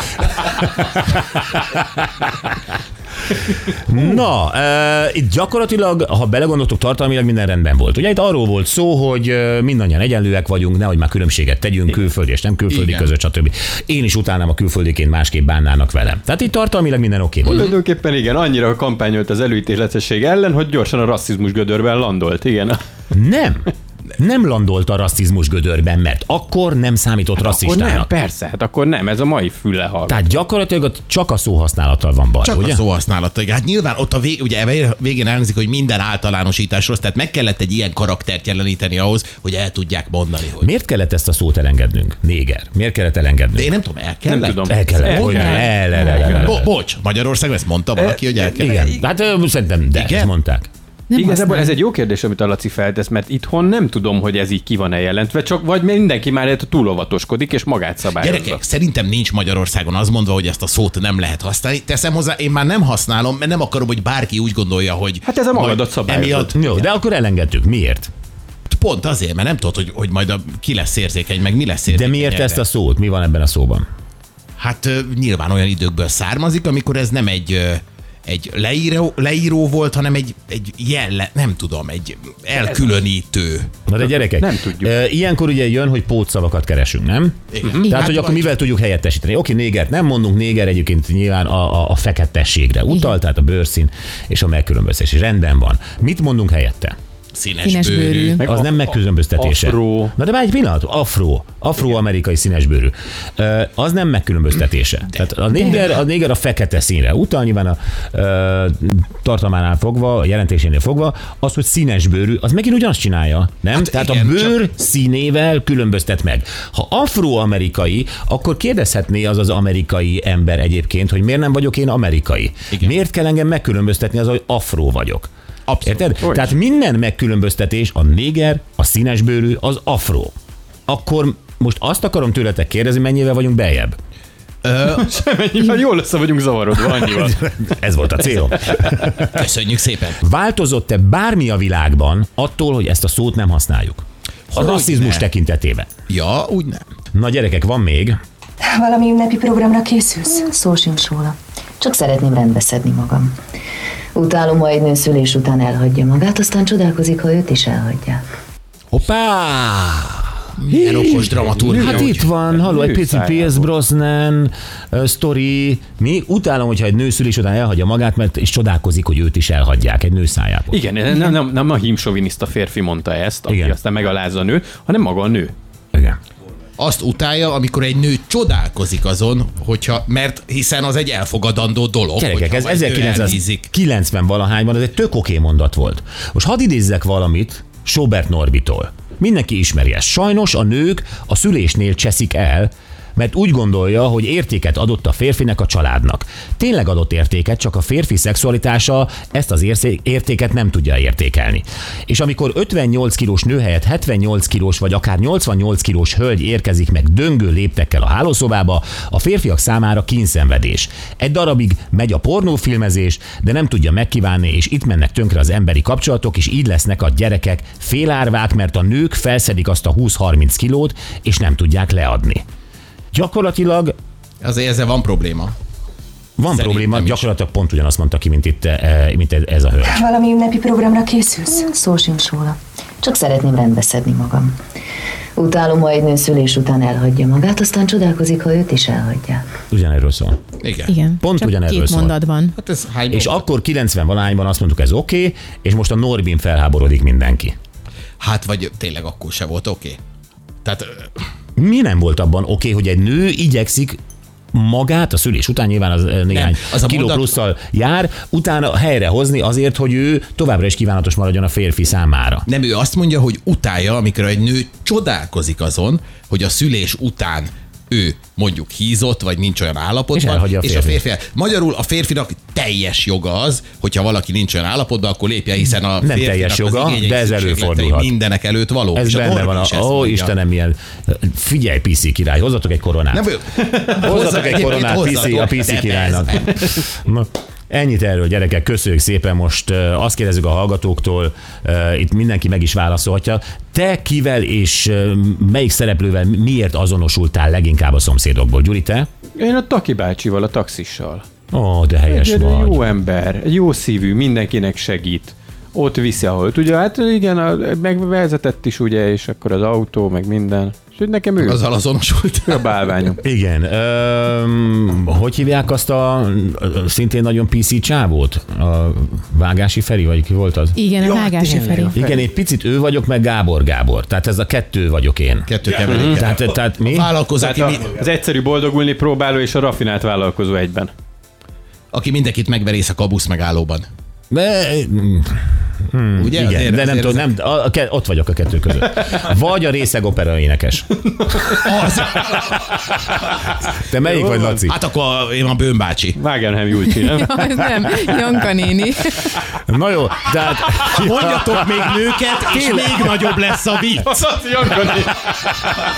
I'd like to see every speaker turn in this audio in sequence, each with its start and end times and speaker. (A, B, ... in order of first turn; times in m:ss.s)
0:00.4-0:02.5 A
0:03.7-0:17.7 A
0:12.7-0:13.1 B
0:17.4-0:22.8 C
0:23.1-0:28.1 A
0:27.4-0:30.4 C
0:30.1-0:32.8 A
0:32.4-0:40.7 B
0:40.6-0:43.7 A
0:43.6-0:48.8 B
0:44.3-0:46.5 C
0:44.7-0:46.7 A
0:45.9-0:46.2 D
0:48.6-0:50.7 A
0:49.9-0:50.3 B
0:51.1-0:51.8 D
0:51.1-0:58.6 C
0:58.2-1:06.5 B
1:05.2-1:06.8 C
1:06.5-1:08.1 A
1:08.7-1:12.6 B
1:11.9-1:13.8 A
1:14.6-1:23.7 B
1:22.6-1:22.8 C
1:23.9-1:37.0 A
1:24.0-1:24.9 C
1:27.5-1:28.6 B
1:27.6-1:28.0 C
1:37.3-1:38.4 B
1:37.6-1:38.4 D
1:38.4-1:40.1 C
1:38.4-2:05.3 A
1:53.7-1:54.6 B
2:05.7-2:06.1 B
2:05.8-2:10.3 A
2:06.2-2:06.5 C
2:10.9-2:14.0 A
2:14.6-2:15.1 B
2:14.9-2:17.4 C
2:17.1-2:19.4 A
2:19.2-2:20.2 B
2:20.2-2:25.9 A
2:24.5-2:25.2 B
2:26.1-2:26.8 B
2:27.1-2:28.2 A
2:28.6-2:30.5 E
2:30.2-2:33.3 F
2:34.2-2:38.2 F
2:38.9-2:40.3 A
2:40.6-2:42.3 B
2:40.9-2:50.8 A
2:41.0-2:43.7 C
2:50.7-2:55.5 C
2:53.5-2:53.8 A
2:56.8-3:03.7 B
3:02.2-3:42.4 A
3:43.1-3:43.9 A
3:44.4-3:45.5 B
3:46.4-3:50.0 A
3:46.5-3:47.2 B
3:49.9-3:51.7 E
3:51.4-3:54.5 F
3:55.4-3:59.4 F
3:59.7-4:00.4 A
4:00.6-4:01.0 B
4:00.9-4:02.5 D
4:01.2-4:02.2 A
4:02.6-4:03.4 B
4:03.1-4:07.5 A
4:08.2-4:10.0 B
4:10.6-4:11.1 B
4:11.6-4:14.0 A
4:14.5-4:22.4 A
4:16.3-4:17.3 B
4:22.5-4:40.3 B
4:30.1-4:31.0 A
4:36.0-4:38.1 A
4:38.9-4:43.3 A
4:43.1-4:46.6 B
4:43.8-4:44.6 C
4:44.0-4:59.1 A
4:59.4-5:01.2 C
5:01.5-5:02.9 A
5:02.1-5:11.6 C
5:11.4-5:12.6 B
5:12.4-5:13.2 C
5:13.2-5:20.8 A
5:20.8-5:22.0 D
5:21.1-5:21.9 B
5:21.9-5:27.1 A
5:25.5-5:28.0 B
5:25.9-5:26.2 C
5:27.4-5:30.9 C
5:31.9-5:33.9 B
5:34.3-5:40.9 A
5:36.2-5:37.3 B
5:41.6-5:42.6 B
5:43.8-5:44.7 A
5:44.0-5:44.6 C
5:44.7-5:46.2 B
5:46.2-5:47.3 C
5:47.1-5:49.2 D
5:49.5-5:51.9 A
5:50.7-5:54.1 B
5:52.5-5:52.8 C
5:54.0-5:55.3 C